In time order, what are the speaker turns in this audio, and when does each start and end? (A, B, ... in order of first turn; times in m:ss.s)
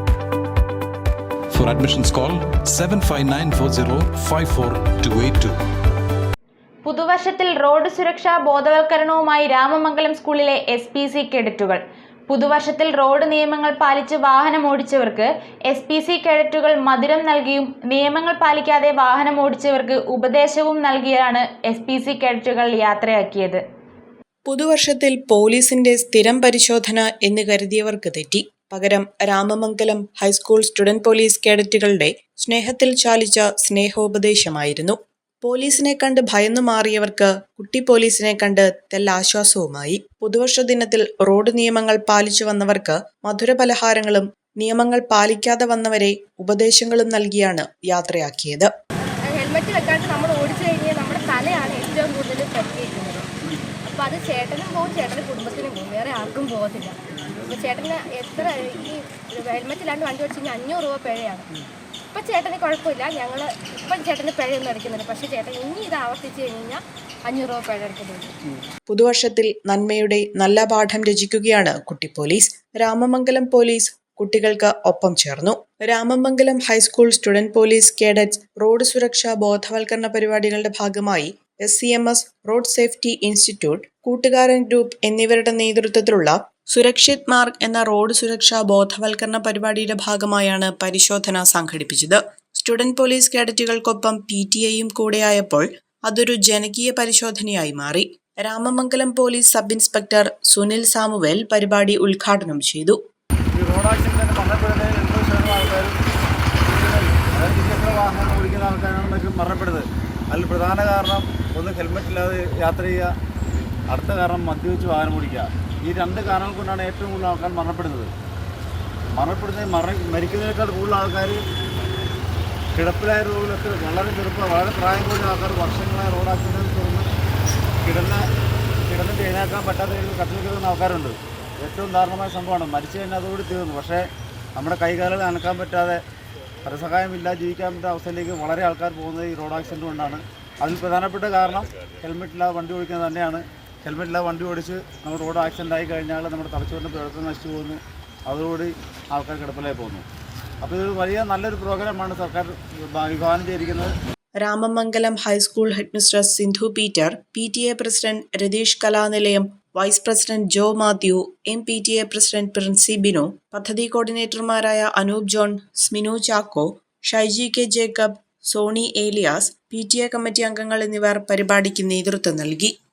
0:01.5-0:05.6 A
0:06.8-0:23.6 B
0:24.5-0:48.7 C
0:49.3-0:53.3 D
0:53.8-1:01.5 D
1:02.1-1:08.3 D
1:08.9-1:43.0 C
1:43.5-1:46.0 E
1:46.7-1:53.1 E
1:53.9-1:58.1 E
1:59.1-2:01.4 E
2:02.8-2:07.1 E
2:07.8-2:08.2 E
2:08.9-2:14.0 E
2:14.6-2:16.0 E
2:16.6-2:30.0 E
2:30.6-2:33.9 E
2:34.4-2:52.7 C